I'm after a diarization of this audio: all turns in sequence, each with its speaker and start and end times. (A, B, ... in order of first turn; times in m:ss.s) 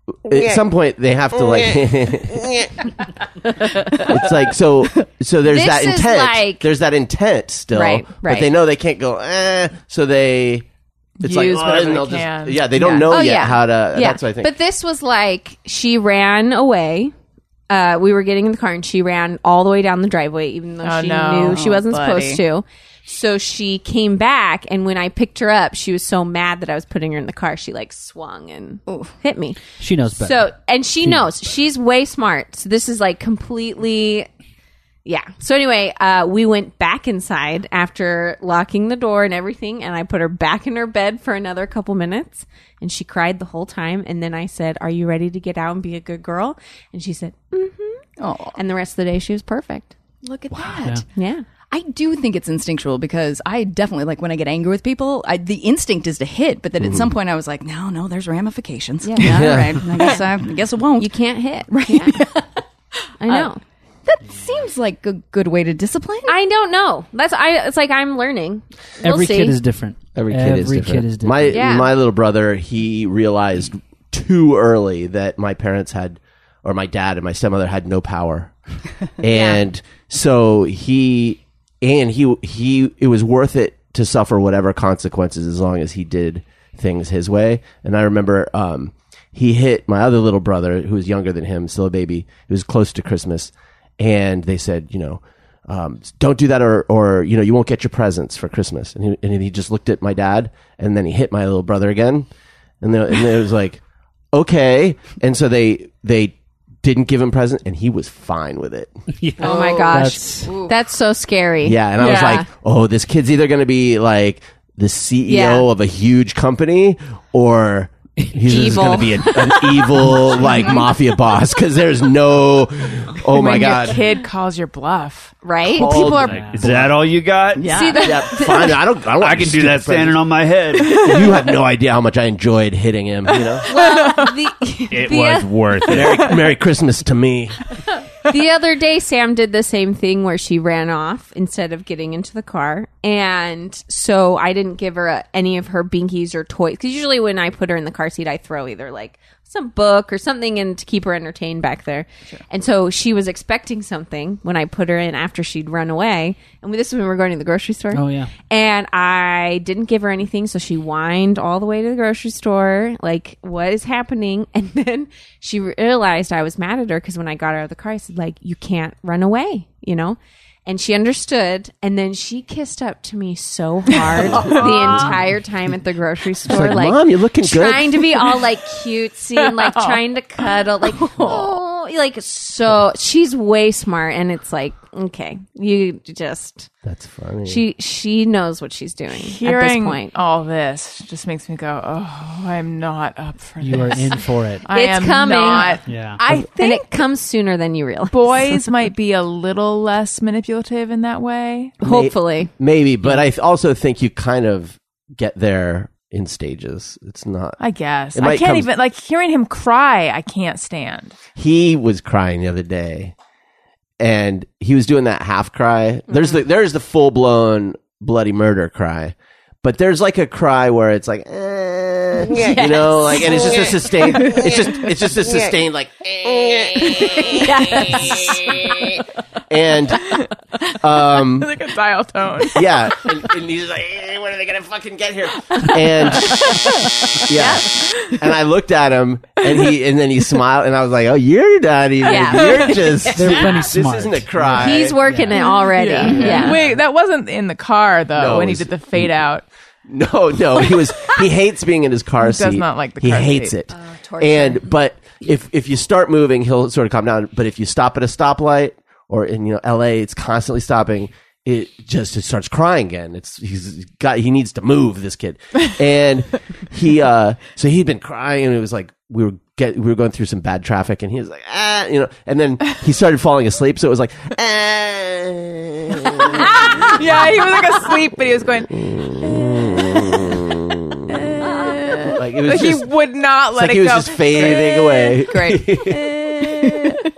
0:00.2-0:02.7 A
0:03.9-0:10.6 A
0:05.4-0:06.6 B
0:07.7-0:08.5 B
0:11.2-0:13.0 C
0:11.2-0:14.5 A
0:13.1-0:17.1 B
0:17.7-0:34.3 B
0:20.8-0:22.4 C
0:21.4-0:22.2 D
0:28.9-0:29.1 D
0:29.8-0:30.4 E
0:31.0-0:31.3 E
0:35.0-0:48.0 B
0:48.2-0:48.6 D
0:48.5-0:49.9 B
0:50.2-0:51.0 D
0:50.6-0:51.0 E
0:51.1-0:51.4 B
0:51.7-1:02.5 D
0:56.8-0:57.1 A
0:59.0-1:00.2 B
0:59.2-0:59.8 A
1:01.0-1:02.2 B
1:03.2-1:03.6 B
1:03.2-1:03.5 D
1:04.0-1:06.4 D
1:06.3-1:09.6 B
1:09.0-1:11.8 E
1:10.1-1:18.5 A
1:11.5-1:11.9 B
1:19.2-1:42.3 A
1:19.2-1:19.6 B
1:42.8-1:43.8 A
1:44.3-1:48.9 A
1:49.1-1:50.5 E
1:49.4-1:50.7 D
1:49.4-1:52.4 B
1:51.6-2:04.0 A
1:52.0-1:52.4 C
1:55.3-1:55.7 B
1:58.2-1:59.2 E
1:58.4-1:59.3 B
2:00.0-2:00.4 E
2:03.3-2:05.4 C
2:05.4-2:06.2 B
2:05.7-2:06.9 A
2:05.9-2:07.9 F
2:06.2-2:06.9 E
2:07.5-2:08.2 D
2:07.7-2:08.8 B
2:08.0-2:10.3 A
2:09.1-2:11.1 F
2:10.8-2:13.7 A
2:13.6-2:14.4 C
2:13.6-2:16.0 B
2:14.9-2:16.3 F
2:15.7-2:17.6 A
2:18.2-3:06.7 B
2:37.9-2:38.3 E
2:54.3-2:55.1 C
2:56.5-2:58.1 A
2:59.4-3:00.5 C
3:01.1-3:01.4 C
3:06.8-3:07.6 A
3:07.4-3:10.1 B
3:09.1-3:16.9 C
3:13.6-3:14.7 E
3:14.7-3:15.8 B
3:15.8-3:16.2 E
3:16.6-3:18.7 B
3:18.1-3:21.7 C
3:21.8-3:22.5 B
3:21.8-3:27.6 A
3:27.6-3:31.2 C
3:28.1-3:28.7 A
3:31.4-3:33.1 A
3:34.0-3:48.2 A
3:42.3-3:44.5 B
3:44.2-3:44.5 D
3:47.2-3:48.6 B
3:47.4-3:48.0 D
3:49.5-3:50.1 A
3:50.0-3:52.7 C
3:50.8-3:51.5 A
3:52.5-4:05.0 A
3:56.2-3:56.5 C
3:57.3-3:57.8 B
4:02.0-4:03.6 B
4:02.1-4:02.8 C
4:03.1-4:05.4 E
4:04.5-4:06.6 B
4:05.4-4:09.4 C
4:06.0-4:06.6 A
4:06.1-4:06.4 E
4:08.2-4:09.2 A
4:09.9-4:37.0 A
4:12.2-4:13.5 C
4:13.7-4:14.7 B
4:36.4-4:38.7 C
4:38.7-4:41.2 A
4:41.4-4:45.0 C
4:42.1-4:42.9 A
4:43.5-4:46.5 A
4:45.3-4:45.9 D
4:46.6-4:47.0 D